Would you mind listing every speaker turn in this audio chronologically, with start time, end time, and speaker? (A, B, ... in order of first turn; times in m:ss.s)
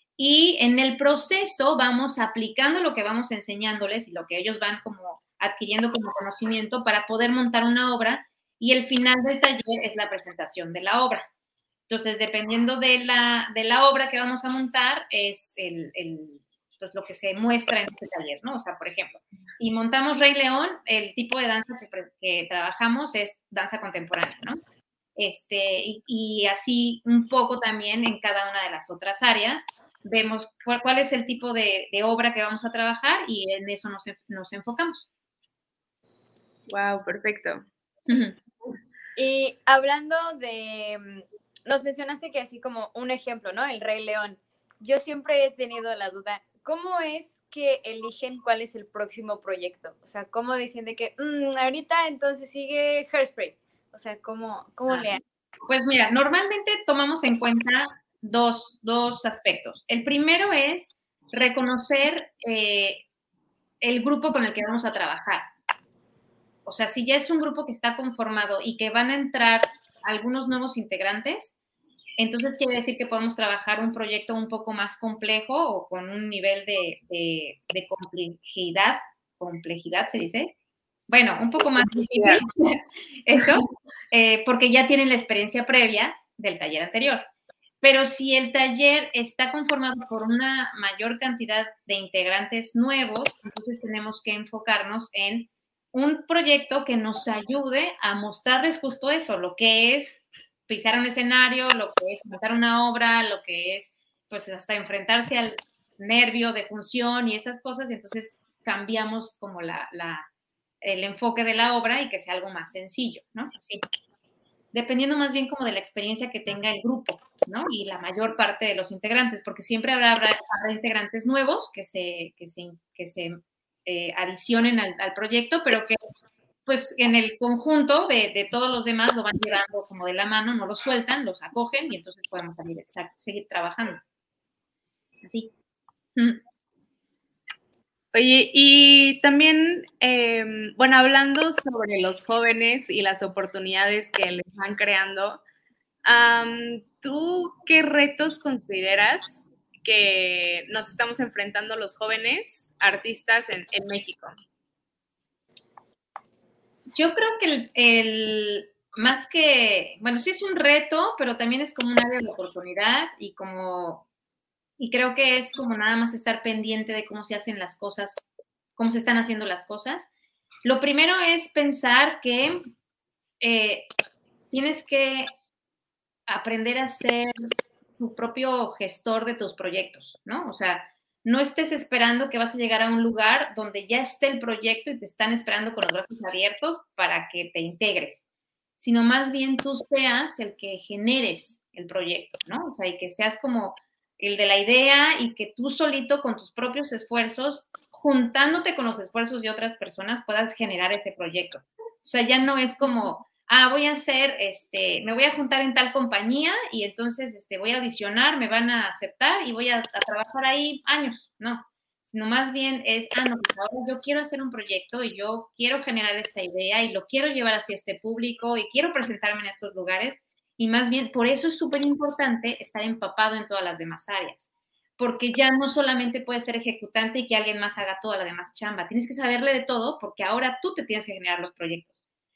0:00.2-0:11.3 A
0:11.9-0:24.6 A
0:25.2-0:35.1 A
0:36.7-0:37.6 B
0:38.1-0:38.4 A
0:39.2-0:55.2 C
0:55.7-1:03.0 A
1:03.8-1:05.5 A
1:06.6-1:11.6 A
1:12.2-1:20.5 A
1:21.1-1:27.3 A
1:21.8-1:22.4 B
1:27.8-1:50.3 A
1:50.8-1:53.8 A
1:54.7-2:06.0 A
2:06.7-2:14.0 A
2:15.2-2:15.5 A
2:16.2-2:16.4 A
2:18.1-2:25.4 B
2:26.0-2:34.3 B
2:36.9-2:44.1 A
2:44.8-2:50.1 A
2:50.6-2:52.6 A
2:53.4-2:53.9 A
2:54.5-2:55.3 A
2:56.3-2:57.3 A
2:58.0-3:08.2 A
3:08.8-3:44.5 A
3:45.0-3:52.0 A